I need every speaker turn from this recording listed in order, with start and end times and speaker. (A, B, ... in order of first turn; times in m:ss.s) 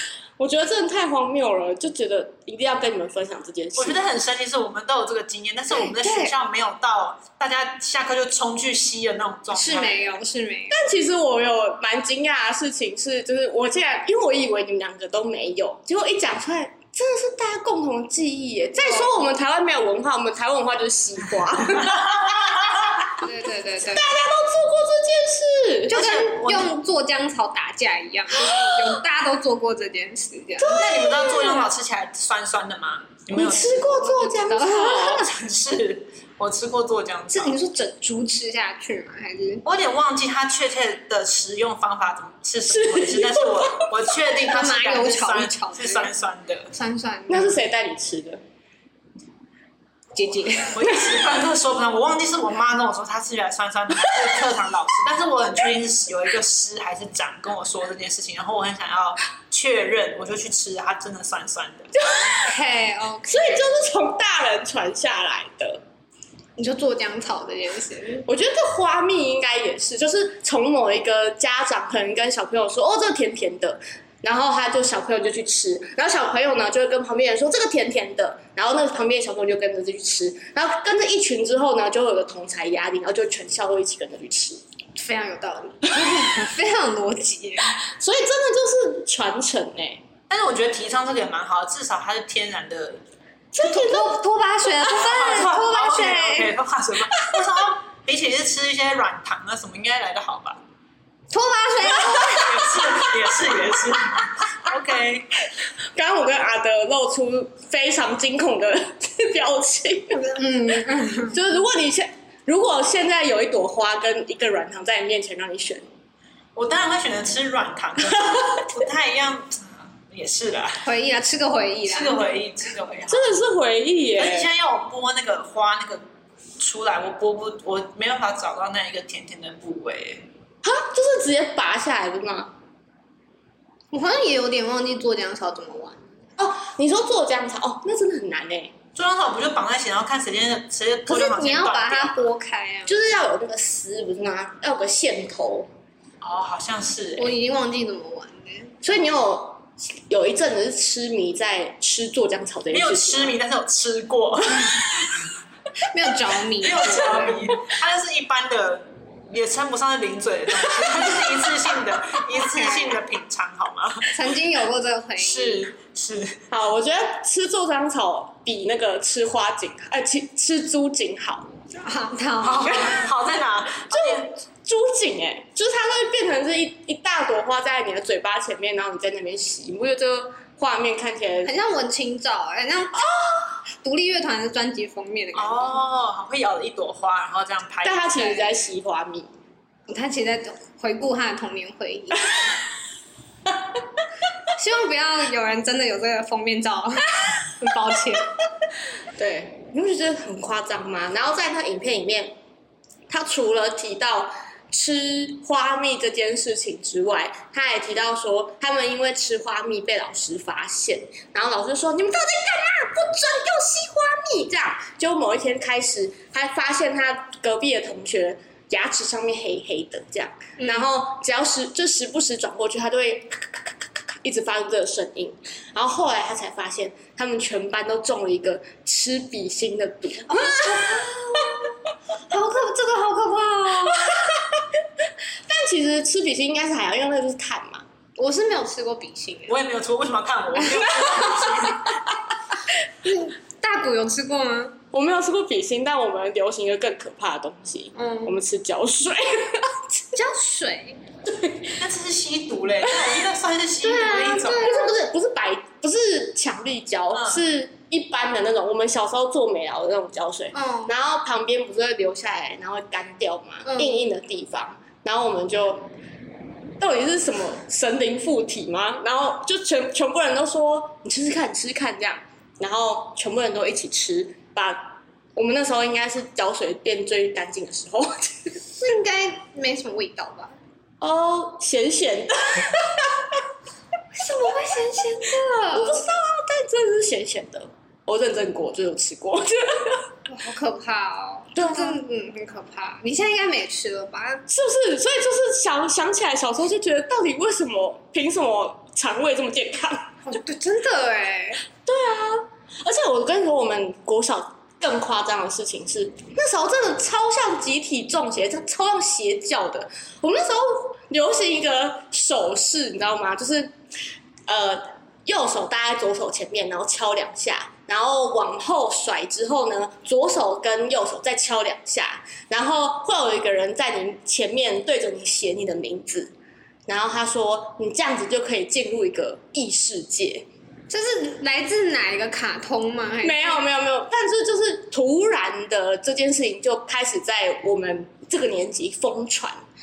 0:00.4-0:04.0 A
0:03.8-0:10.0 B
0:05.7-0:06.3 C
0:09.5-0:10.8 C
0:10.7-0:26.0 A
0:18.8-0:19.2 C
0:23.2-0:24.1 C
0:25.9-0:30.8 C
0:25.9-0:26.7 B
0:28.3-0:29.0 A
0:30.6-0:31.7 A
0:30.7-0:34.2 B
0:33.3-0:35.3 A
0:34.0-0:35.3 C
0:35.3-0:37.6 B
0:37.3-0:39.6 C
0:39.6-0:46.7 B
0:42.7-0:44.0 A
0:44.4-0:46.1 C
0:46.7-0:47.5 C
0:47.3-0:48.4 A
0:50.1-0:51.0 C
0:50.7-1:02.0 B
1:02.0-1:02.5 A
1:02.2-1:03.8 C
1:03.3-1:05.8 A
1:06.6-1:08.3 C
1:08.3-1:24.6 A
1:25.0-1:27.8 C
1:26.0-1:26.3 A
1:27.8-1:30.0 A
1:30.3-1:33.0 B
1:33.5-1:34.2 A
1:33.6-1:36.5 C
1:34.8-1:40.6 B
1:41.3-1:43.0 C
1:41.9-1:45.3 B
1:45.9-1:50.2 A
1:50.1-1:51.4 C
1:51.3-1:55.9 A
1:56.6-2:00.8 B
2:00.8-2:02.3 C
2:01.9-2:03.4 B
2:03.1-2:04.5 A
2:04.2-2:06.0 B
2:06.6-2:10.3 B
2:10.6-2:12.5 A
2:13.9-2:16.0 C
2:16.4-2:18.7 A
2:18.9-2:22.2 B
2:21.1-2:22.9 C
2:22.9-2:25.7 A
2:26.2-2:27.3 B
2:27.2-2:28.8 C
2:28.8-2:33.4 A
2:32.7-2:35.3 B
2:35.8-2:37.4 C
2:36.6-2:44.2 B
2:37.3-2:37.6 A
2:40.7-2:41.4 A
2:42.4-2:43.0 C
2:44.1-2:45.7 C
2:45.2-2:46.4 B
2:46.5-2:51.5 A
2:51.7-2:53.1 C
2:52.4-2:54.3 B
2:53.9-3:01.6 A
3:01.4-3:03.1 C
3:03.0-3:03.5 A
3:03.8-3:05.8 C
3:05.3-3:08.0 B
3:07.8-3:09.3 A
3:08.2-3:08.5 C
3:09.9-3:12.5 C
3:14.6-3:18.3 C
3:19.2-3:22.3 A
3:23.1-3:51.6 A
3:40.6-3:40.9 C
3:50.3-3:51.6 C
3:52.3-3:54.2 C
3:53.9-3:54.7 A
3:55.5-3:57.8 A
3:58.2-3:59.6 C
3:59.5-4:01.9 B
4:00.8-4:01.6 C
4:01.0-4:01.7 A
4:03.0-4:04.8 C
4:04.9-4:10.0 A
4:07.9-4:08.4 C
4:10.1-4:11.0 C
4:11.3-4:11.7 A
4:11.8-4:14.8 B
4:13.8-4:14.9 C
4:14.6-4:25.9 A
4:17.1-4:17.4 B
4:20.5-4:20.9 C
4:23.6-4:24.1 C
4:26.8-4:38.6 A
4:38.8-4:40.6 C
4:41.0-4:43.4 A
4:44.2-4:46.0 C
4:45.7-4:50.1 A
4:50.3-4:54.4 C
4:51.6-4:52.0 A
4:54.5-5:00.2 A
5:00.2-5:01.6 C
5:01.8-5:13.7 A
5:14.5-5:26.3 A
5:26.9-5:30.4 A
5:30.9-5:33.6 C
5:33.2-5:39.6 A